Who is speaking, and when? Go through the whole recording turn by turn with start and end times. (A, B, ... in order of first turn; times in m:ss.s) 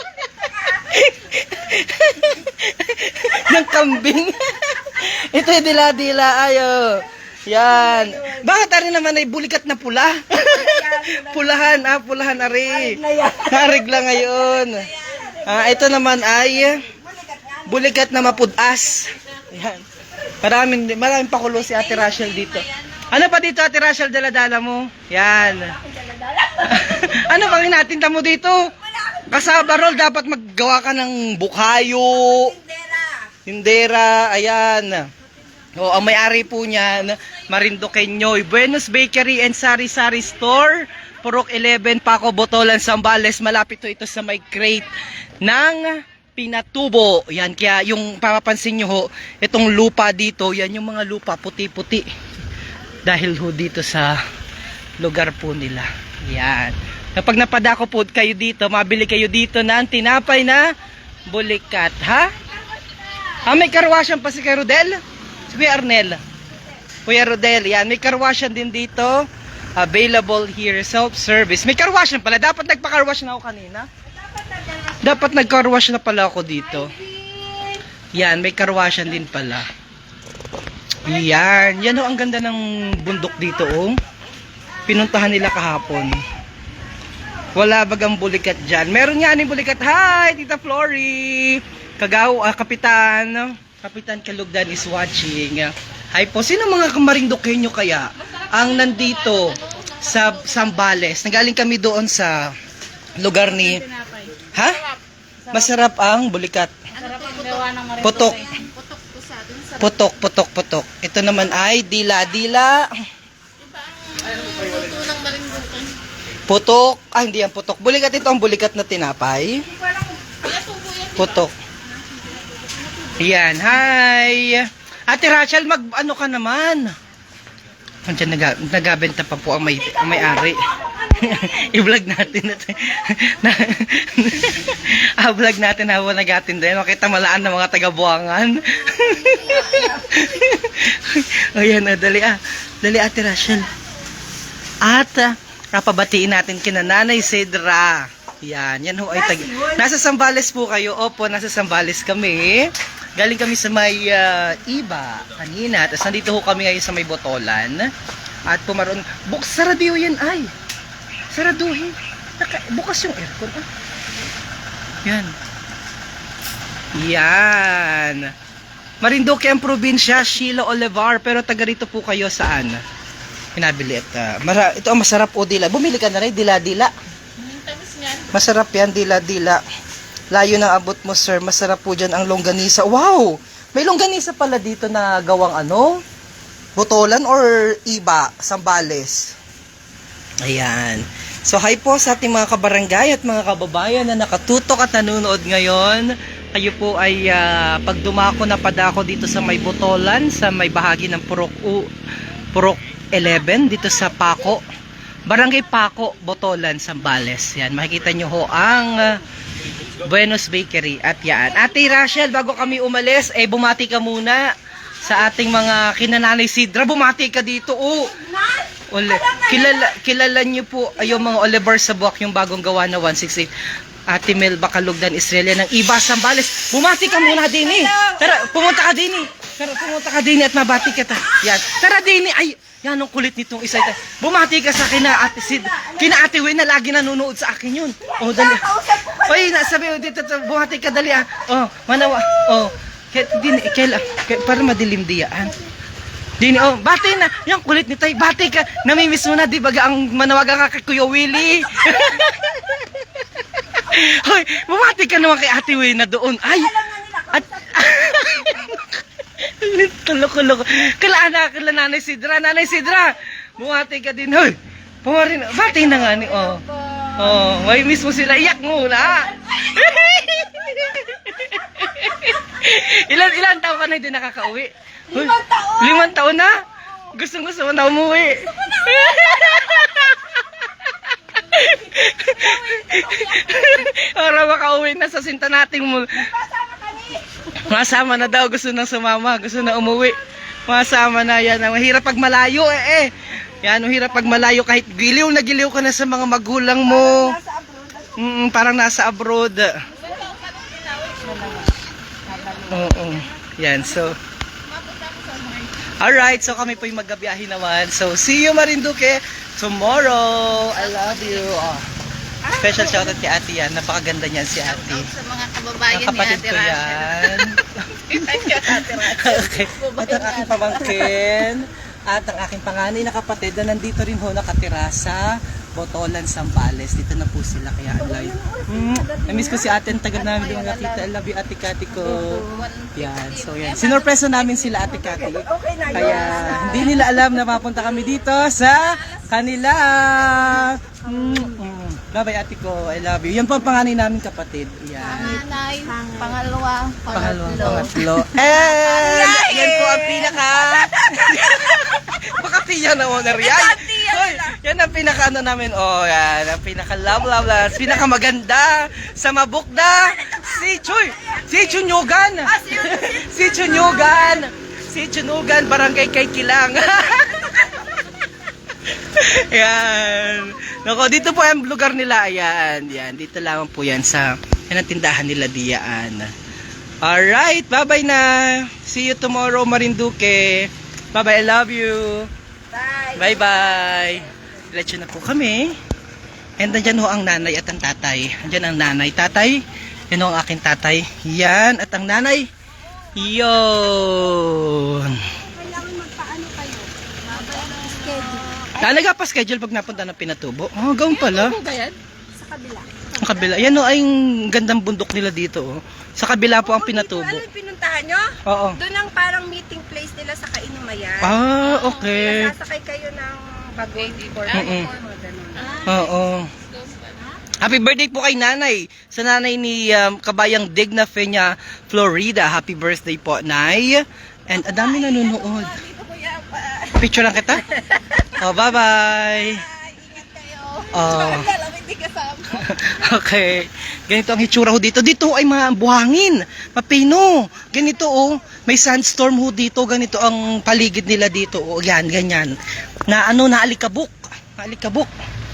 0:00.4-0:14.8 A
0:07.5-0:08.6 B
0:10.5-0:11.8 B
0:12.6-0:18.5 B
0:15.4-0:16.8 A
0:17.6-0:19.8 A
0:20.4-0:25.8 A
0:21.8-0:22.6 B
0:25.5-0:27.3 B
0:26.6-0:28.7 A
0:29.0-0:29.4 B
0:29.3-0:32.5 A
0:32.2-0:33.3 B
0:33.4-0:35.1 A
0:35.8-0:52.0 A
0:53.0-0:54.2 A
0:55.0-1:00.6 A
1:01.3-1:02.3 A
1:02.7-1:03.5 B
1:03.4-1:06.2 A
1:07.0-1:13.9 A
1:14.0-1:15.2 B
1:15.0-1:16.9 A
1:16.8-1:17.8 B
1:18.1-1:19.7 A
1:21.0-1:24.0 A
1:24.8-1:26.2 A
1:27.5-1:42.5 A
1:38.2-1:40.9 C
1:43.2-1:43.9 A
1:43.7-1:44.3 C
1:44.5-1:44.8 A
1:45.5-1:46.7 A
1:46.9-1:50.0 C
1:47.0-1:47.6 B
1:48.0-1:48.4 A
1:48.3-1:48.6 B
1:49.8-1:52.9 A
1:53.6-1:56.0 C
1:56.5-1:59.7 A
1:59.7-2:00.3 B
2:00.4-2:01.4 C
2:01.2-2:01.5 A
2:03.2-2:06.9 A
2:08.0-2:23.7 A
2:19.3-2:20.0 B
2:24.8-2:37.9 A
2:29.2-2:29.8 B
2:38.5-2:40.5 A
2:41.3-2:43.7 A
2:45.0-2:45.3 A
2:46.9-2:48.3 A
2:49.0-2:52.8 A
2:53.6-2:56.9 A
2:57.4-2:58.3 C
2:58.3-2:59.6 A
3:00.3-3:06.0 A
3:06.8-3:09.3 A
3:10.4-3:21.9 A
3:22.5-3:24.6 A
3:25.3-3:29.2 A
3:30.0-3:34.4 A
3:35.0-3:38.1 A
3:38.2-3:39.9 B
3:38.9-3:43.5 A
3:44.1-4:05.5 A
3:47.2-3:48.4 B
3:55.1-3:56.2 B
3:58.0-3:59.8 B
4:06.4-4:12.8 A
4:13.7-4:16.7 A
4:16.4-4:18.8 B
4:17.3-4:26.6 A
4:25.8-4:27.5 B
4:27.2-4:36.6 A
4:35.1-4:36.1 B
4:37.1-4:46.3 A
4:38.4-4:39.7 B
4:42.4-4:43.7 B
4:46.3-4:47.4 B
4:47.6-4:57.4 A
4:56.8-4:58.2 B
4:58.2-4:59.7 A
4:59.9-5:01.7 C
5:02.2-5:03.0 C
5:02.3-5:02.8 B
5:02.7-5:04.1 A
5:04.6-5:05.9 C
5:06.0-5:11.8 A
5:10.5-5:11.7 C
5:12.4-5:13.2 B
5:12.5-5:15.1 A
5:14.7-5:21.2 C
5:15.9-5:45.4 A
5:27.9-5:29.7 B
5:30.1-5:31.1 C
5:32.0-5:32.7 B
5:32.3-5:35.0 C
5:35.0-5:37.3 B
5:36.0-5:36.8 C
5:38.8-5:39.2 C
5:41.0-5:41.6 B
5:45.0-5:49.2 C
5:45.0-5:46.4 B
5:47.1-6:07.9 A
5:47.6-5:47.9 B
5:48.9-5:51.8 B
5:53.3-5:54.6 B
6:00.2-6:01.9 B
6:02.4-6:04.4 B
6:08.9-6:16.3 A
6:17.0-6:22.3 A
6:22.7-6:24.2 B
6:23.1-6:25.7 A
6:26.6-6:32.5 A
6:33.2-6:35.3 A
6:35.4-6:38.9 B
6:37.3-6:38.7 C
6:38.7-6:41.6 A
6:41.1-6:42.0 C
6:42.3-6:43.3 B
6:43.2-6:47.4 A
6:46.4-6:55.9 B
6:48.4-6:48.8 A
6:51.2-6:52.5 A
6:51.6-6:52.1 C
6:54.0-6:54.9 C
6:54.5-6:54.9 A
6:55.6-6:57.4 C
6:55.8-6:56.5 A
6:57.6-7:05.8 A
7:04.7-7:07.0 C
7:07.0-7:07.6 A
7:07.7-7:08.3 B
7:08.4-7:09.6 A
7:09.9-7:12.6 C
7:09.9-7:10.3 B
7:10.9-7:11.5 A
7:11.3-7:11.7 B
7:12.5-7:22.5 A
7:23.1-7:25.1 A